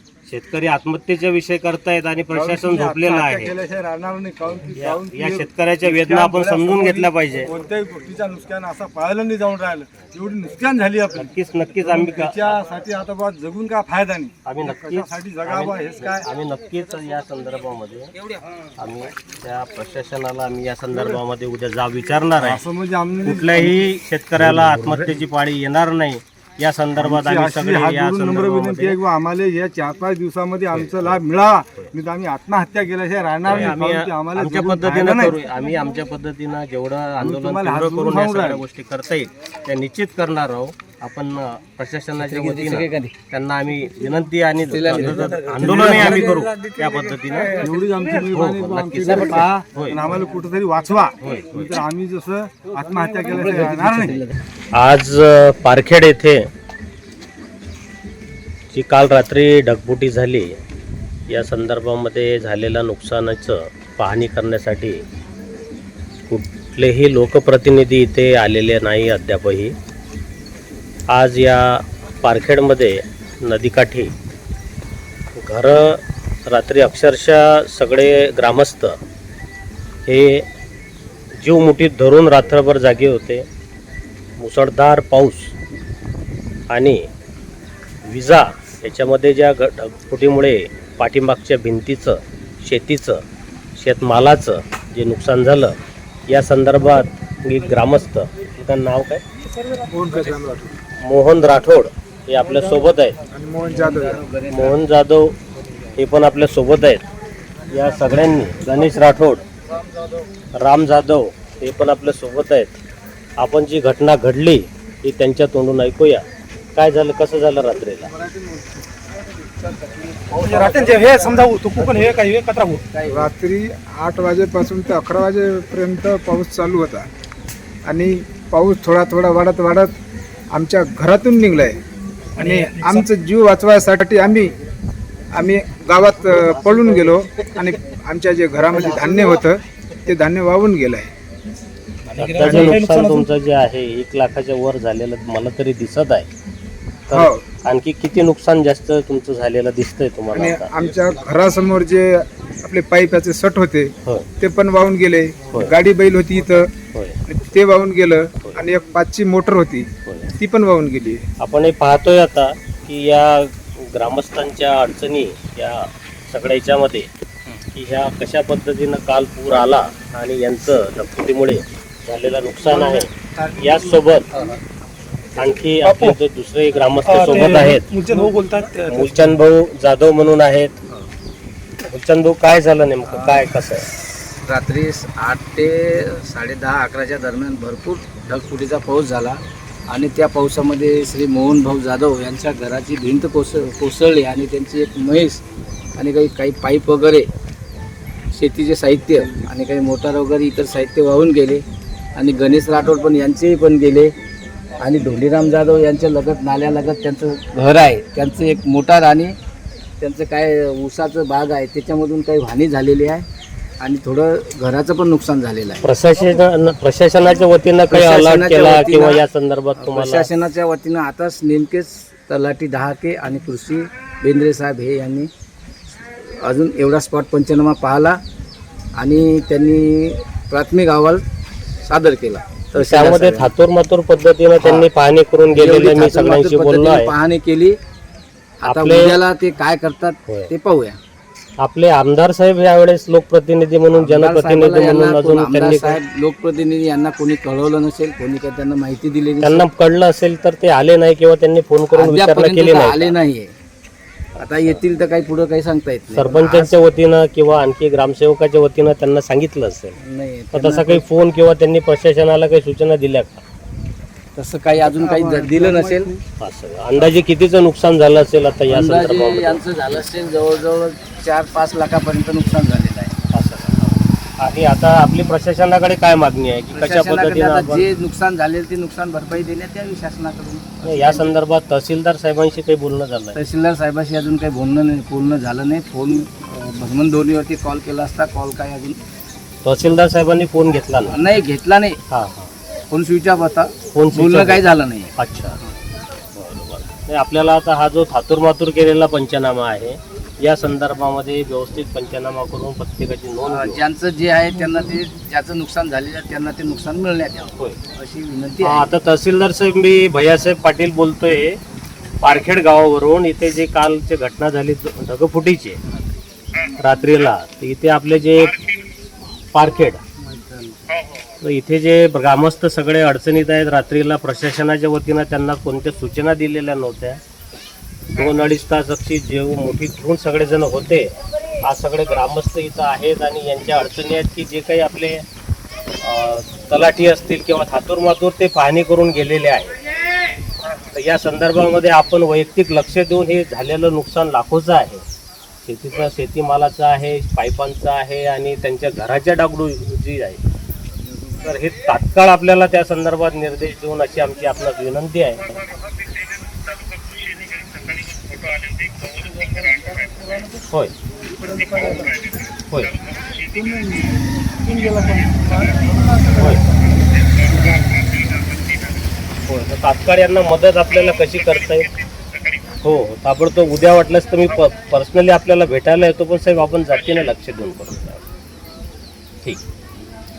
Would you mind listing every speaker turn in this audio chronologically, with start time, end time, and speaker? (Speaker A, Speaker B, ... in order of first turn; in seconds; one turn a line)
Speaker A: 0.3-3.6
Speaker B: 2.3-16.3
Speaker A: 4.7-7.5
Speaker A: 11.2-12.5
Speaker A: 14.5-18.1
Speaker A: 18.8-22.6
Speaker B: 22.4-23.8
Speaker A: 23.2-29.0
Speaker B: 24.6-25.1
Speaker B: 27.0-35.4
Speaker A: 30.7-31.2
Speaker A: 33.5-47.7
Speaker B: 37.2-38.6
Speaker C: 42.2-43.1
Speaker C: 44.7-46.7
Speaker B: 45.6-46.1
Speaker B: 47.5-54.2
Speaker A: 48.3-50.0
Speaker C: 49.0-49.5
Speaker A: 51.2-51.8
Speaker C: 53.3-54.3
Speaker A: 54.7-56.5
Speaker A: 58.7-60.5
Speaker A: 61.3-65.0
Speaker A: 66.3-69.8
Speaker A: 71.1-74.1
Speaker A: 75.3-79.0
Speaker A: 80.1-80.5
Speaker A: 81.4-83.5
Speaker A: 84.4-85.5
Speaker A: 86.7-87.0
Speaker A: 88.0-93.2
Speaker A: 93.8-95.8
Speaker A: 96.3-99.2
Speaker D: 99.8-100.8
Speaker A: 101.0-103.2
Speaker D: 103.3-104.2
Speaker C: 103.7-104.8
Speaker A: 104.5-105.3
Speaker A: 106.0-107.0
Speaker A: 107.7-109.4
Speaker A: 110.5-112.8
Speaker A: 113.4-116.2
Speaker A: 116.8-118.1
Speaker B: 118.2-118.8
Speaker C: 119.5-123.3
Speaker E: 120.3-122.8
Speaker D: 123.1-127.1
Speaker D: 127.8-129.9
Speaker D: 130.5-131.8
Speaker D: 132.3-134.6
Speaker E: 132.4-133.0
Speaker D: 135.3-141.1
Speaker A: 142.2-146.3
Speaker E: 142.3-143.3
Speaker D: 142.4-142.8
Speaker A: 147.1-150.7
Speaker D: 147.1-147.4
Speaker D: 150.3-156.7
Speaker D: 157.3-161.2
Speaker A: 160.1-160.3
Speaker A: 161.4-167.1
Speaker A: 167.7-174.3
Speaker E: 172.7-173.0
Speaker A: 175.4-178.1
Speaker E: 175.8-176.2
Speaker E: 177.0-179.2
Speaker A: 178.9-180.8
Speaker A: 181.8-183.9
Speaker C: 183.0-183.4
Speaker C: 184.4-195.4
Speaker C: 195.9-197.3
Speaker C: 198.3-204.1
Speaker C: 204.8-209.4
Speaker C: 210.0-213.3
Speaker C: 213.8-215.9
Speaker A: 215.8-220.3
Speaker C: 217.9-219.2
Speaker C: 219.8-225.3
Speaker C: 226.2-228.2
Speaker C: 228.9-231.3
Speaker C: 231.8-233.5
Speaker A: 232.8-237.1
Speaker C: 234.6-234.9
Speaker C: 235.5-237.8
Speaker C: 238.6-241.0
Speaker A: 238.7-239.2
Speaker A: 241.6-246.0
Speaker C: 243.9-249.7
Speaker A: 249.4-253.2
Speaker C: 251.9-253.5
Speaker C: 254.4-256.8
Speaker A: 254.4-254.8
Speaker A: 256.1-259.9
Speaker C: 260.0-261.0
Speaker A: 260.5-263.4
Speaker C: 264.4-266.2
Speaker A: 266.4-269.6
Speaker C: 268.7-273.1
Speaker A: 273.3-277.9
Speaker C: 276.7-281.2
Speaker A: 280.8-283.4
Speaker C: 283.4-289.0
Speaker A: 289.6-291.2
Speaker C: 291.1-292.0
Speaker A: 292.1-292.5
Speaker C: 292.9-295.1
Speaker A: 293.9-295.6
Speaker A: 296.4-303.8
Speaker C: 303.4-308.9
Speaker A: 308.6-311.6
Speaker A: 312.2-315.8
Speaker A: 316.7-318.6
Speaker A: 319.5-320.0
Speaker C: 320.3-320.8
Speaker A: 321.4-327.2
Speaker A: 328.1-331.1
Speaker A: 331.6-335.2
Speaker A: 336.0-339.7
Speaker A: 340.9-345.0
Speaker A: 345.6-350.4
Speaker A: 351.4-355.7
Speaker A: 366.4-366.6
Speaker A: 369.5-371.9
Speaker A: 372.8-378.2